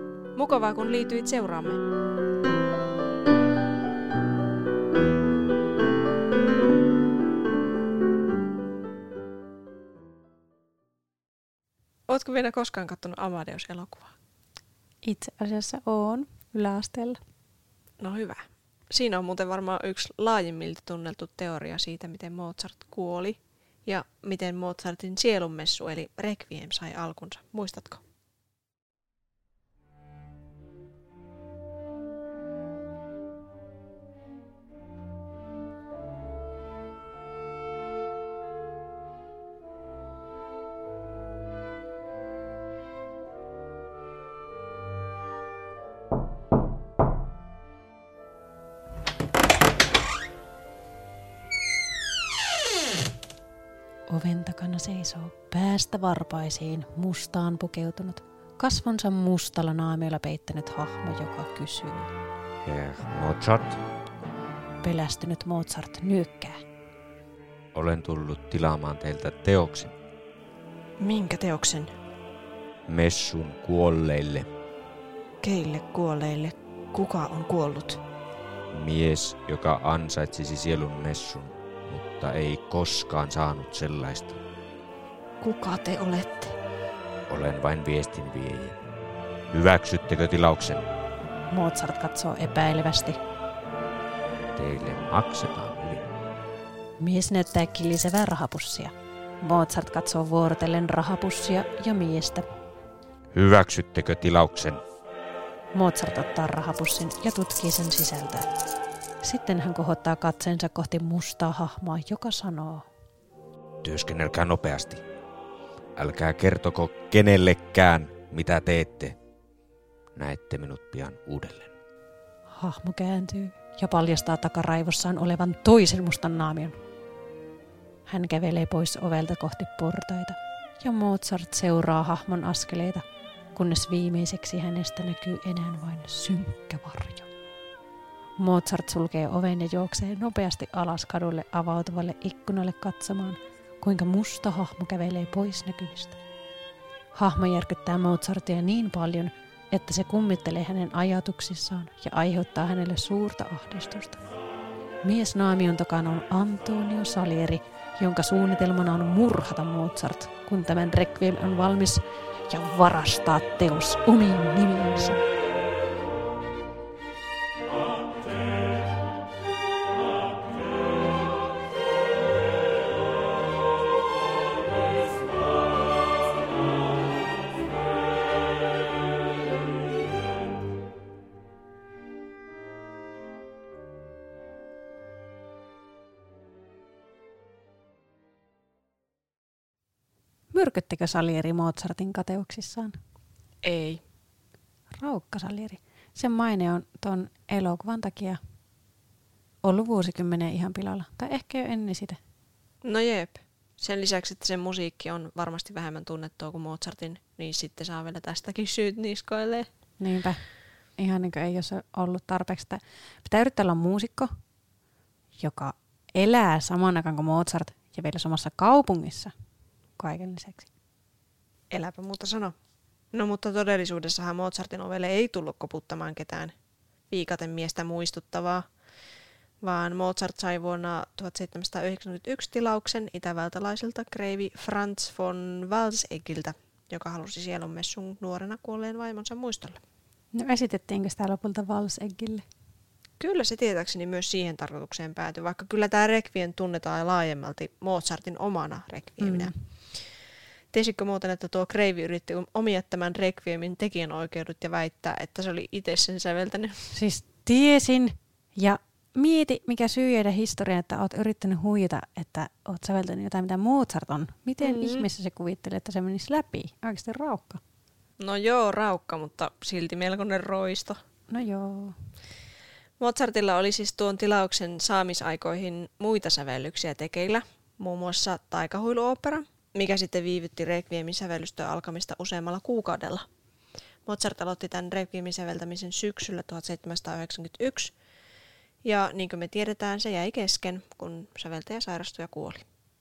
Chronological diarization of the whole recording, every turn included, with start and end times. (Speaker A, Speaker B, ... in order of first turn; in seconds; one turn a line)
Speaker A: 0.3-1.8
Speaker A: 12.1-14.1
Speaker B: 15.0-17.2
Speaker A: 18.0-28.0
Speaker B: 54.1-62.1
Speaker C: 62.6-63.8
Speaker B: 64.8-66.6
Speaker C: 67.7-69.9
Speaker A: 71.0-71.9
Speaker C: 72.9-74.5
Speaker A: 75.4-78.0
Speaker C: 78.7-84.4
Speaker A: 85.4-86.5
Speaker C: 87.3-88.8
Speaker C: 89.5-90.9
Speaker B: 91.5-93.2
Speaker C: 94.5-96.1
Speaker B: 97.0-102.5
Speaker C: 103.3-104.8
Speaker B: 105.7-108.5
Speaker B: 109.2-112.9
Speaker C: 113.8-115.0
Speaker C: 116.0-119.2
Speaker C: 120.1-121.7
Speaker B: 122.5-126.8
Speaker B: 128.1-137.3
Speaker B: 138.4-146.2
Speaker B: 147.1-154.2
Speaker B: 155.0-165.2
Speaker B: 190.5-192.9
Speaker A: 193.6-194.0
Speaker B: 194.9-198.4
Speaker B: 199.6-202.2
Speaker A: 202.8-209.7
Speaker B: 210.0-210.4
Speaker B: 211.0-214.3
Speaker B: 215.4-219.3
Speaker B: 220.0-220.7
Speaker A: 221.7-222.5
Speaker A: 223.1-226.5
Speaker A: 227.1-228.6
Speaker A: 229.6-239.8
Speaker B: 240.3-242.4
Speaker A: 243.2-250.0
Speaker B: 249.2-249.5
Speaker A: 250.7-256.9
Speaker B: 256.9-267.6
Speaker A: 264.6-265.1
Speaker A: 268.2-271.0
Speaker B: 271.3-272.0
Speaker A: 273.0-283.2
Speaker A: 284.1-287.9
Speaker A: 288.8-292.6